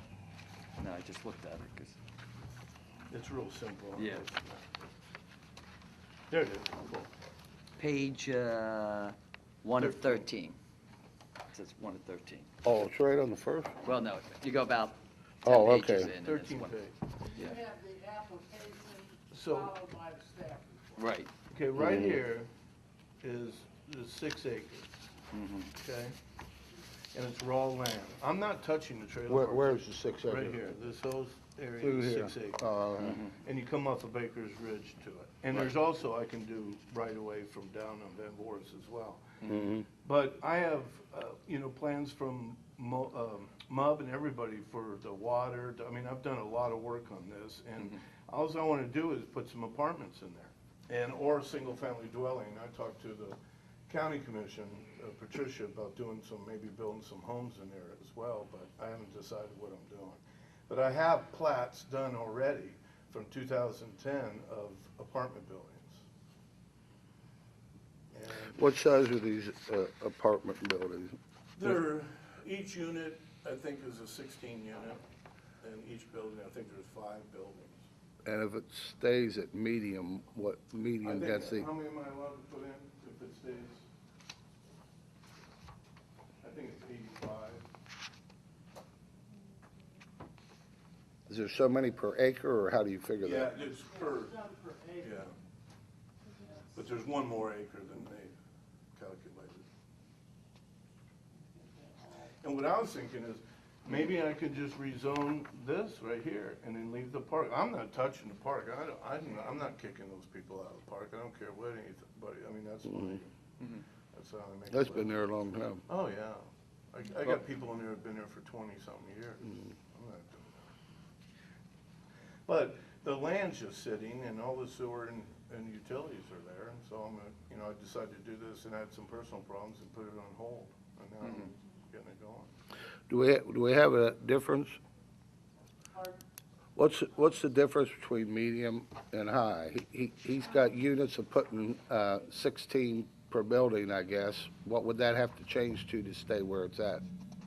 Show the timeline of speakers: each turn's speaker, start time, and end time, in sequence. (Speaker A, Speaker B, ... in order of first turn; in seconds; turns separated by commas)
Speaker A: 0.8-2.0, Speaker B: 3.1-4.8, Speaker A: 4.0-4.3, Speaker B: 6.3-7.1, Speaker A: 7.8-10.6, Speaker B: 9.8-10.3, Speaker A: 11.5-12.5, Speaker C: 12.6-13.8, Speaker A: 13.8-16.8, Speaker C: 15.4-16.1, Speaker B: 16.1-16.9, Speaker D: 17.2-21.1, Speaker B: 19.3-19.7, Speaker A: 21.0-21.3, Speaker B: 21.5-22.5, Speaker C: 21.8-22.2, Speaker B: 23.2-24.9, Speaker A: 25.3-25.7, Speaker B: 25.8-26.1, Speaker B: 27.1-39.5, Speaker C: 29.3-30.7, Speaker C: 31.8-33.2, Speaker C: 39.4-39.9, Speaker B: 40.0-66.0, Speaker B: 68.1-68.7, Speaker C: 68.5-71.8, Speaker B: 71.6-75.0, Speaker B: 75.6-77.8, Speaker C: 78.2-81.7, Speaker B: 81.0-83.8, Speaker B: 86.4-87.7, Speaker C: 91.3-93.6, Speaker B: 93.2-94.4, Speaker D: 93.8-95.3, Speaker B: 95.0-95.3, Speaker B: 96.7-98.3, Speaker B: 99.0-99.7, Speaker D: 101.4-102.4, Speaker B: 102.4-113.3, Speaker C: 112.9-113.2, Speaker B: 114.1-115.2, Speaker C: 114.7-115.8, Speaker B: 115.9-120.7, Speaker B: 122.5-132.5, Speaker A: 131.2-131.5, Speaker C: 133.1-134.8, Speaker D: 135.9-136.2, Speaker C: 136.8-147.0